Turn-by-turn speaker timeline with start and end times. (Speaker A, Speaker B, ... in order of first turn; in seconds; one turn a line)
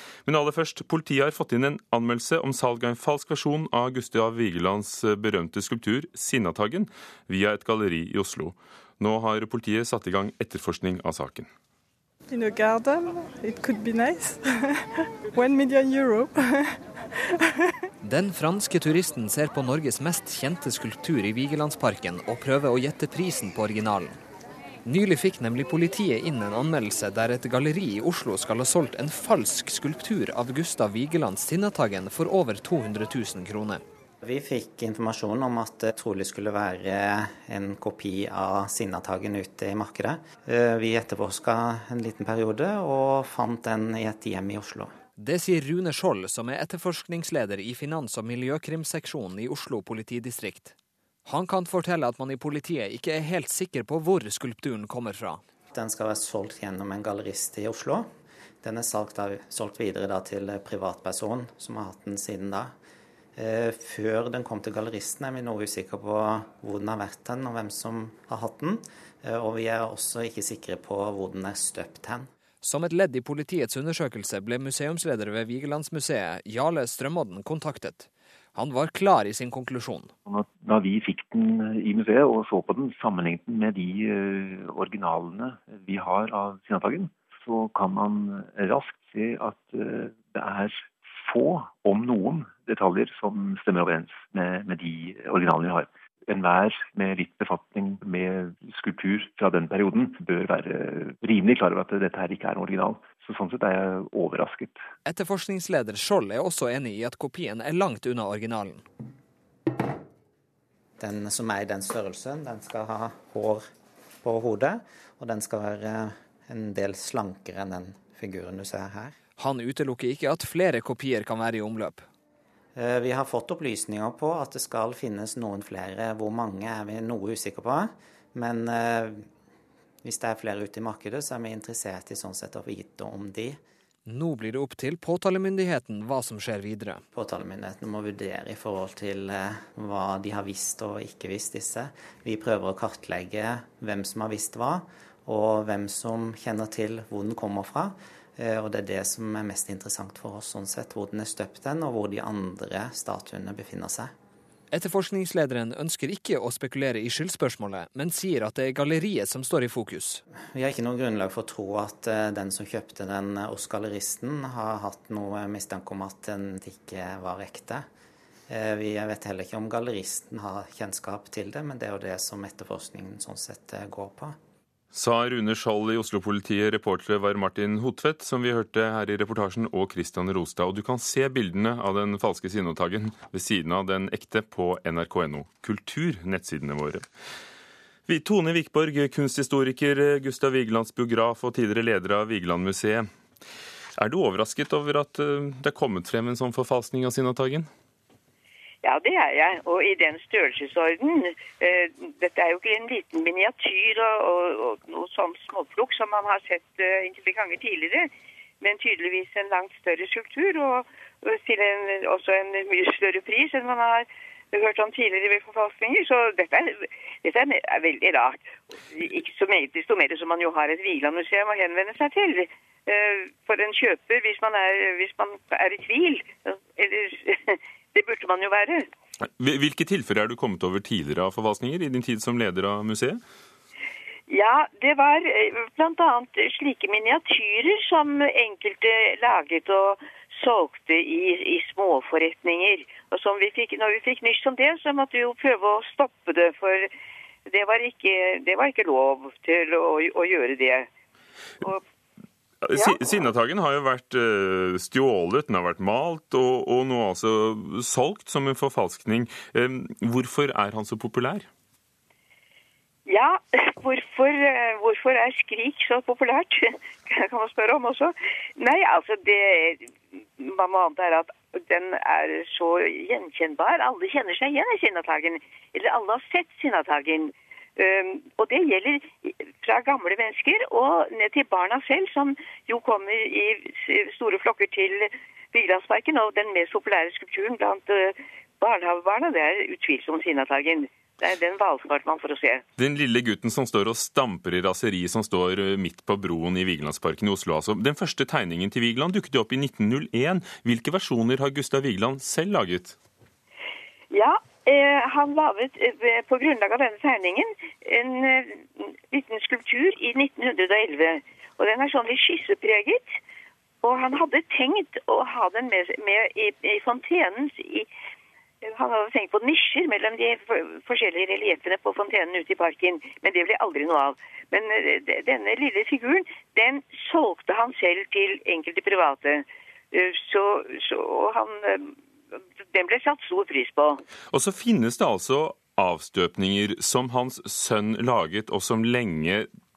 Speaker A: 0.2-11.5
Speaker B: 12.3-14.4
Speaker B: 15.3-16.4
Speaker C: 18.0-24.2
Speaker C: 24.9-33.8
Speaker D: 34.2-44.9
Speaker C: 45.2-50.8
Speaker C: 51.3-55.4
Speaker D: 55.7-58.0
Speaker D: 58.6-62.7
Speaker D: 63.4-72.3
Speaker C: 72.6-80.1
Speaker E: 80.3-104.8
Speaker C: 105.0-108.8
Speaker D: 111.0-113.6
Speaker D: 114.2-119.1
Speaker C: 119.4-122.1
Speaker D: 122.8-129.2
Speaker D: 130.0-133.6
Speaker C: 134.1-137.0
Speaker D: 137.1-154.1
Speaker C: 154.7-160.2
Speaker D: 160.5-167.8
Speaker D: 168.5-174.3
Speaker A: 174.9-187.1
Speaker A: 188.1-193.1
Speaker A: 194.0-197.7
Speaker F: 198.8-208.1
Speaker F: 208.6-218.4
Speaker F: 218.9-228.8
Speaker A: 229.2-233.2
Speaker F: 234.3-246.9
Speaker F: 247.5-250.9
Speaker A: 252.7-261.5
Speaker F: 263.1-292.6
Speaker A: 292.8-303.0
Speaker F: 304.1-313.1
Speaker F: 313.8-317.9
Speaker F: 318.6-331.8
Speaker F: 332.7-334.0
Speaker A: 334.3-339.5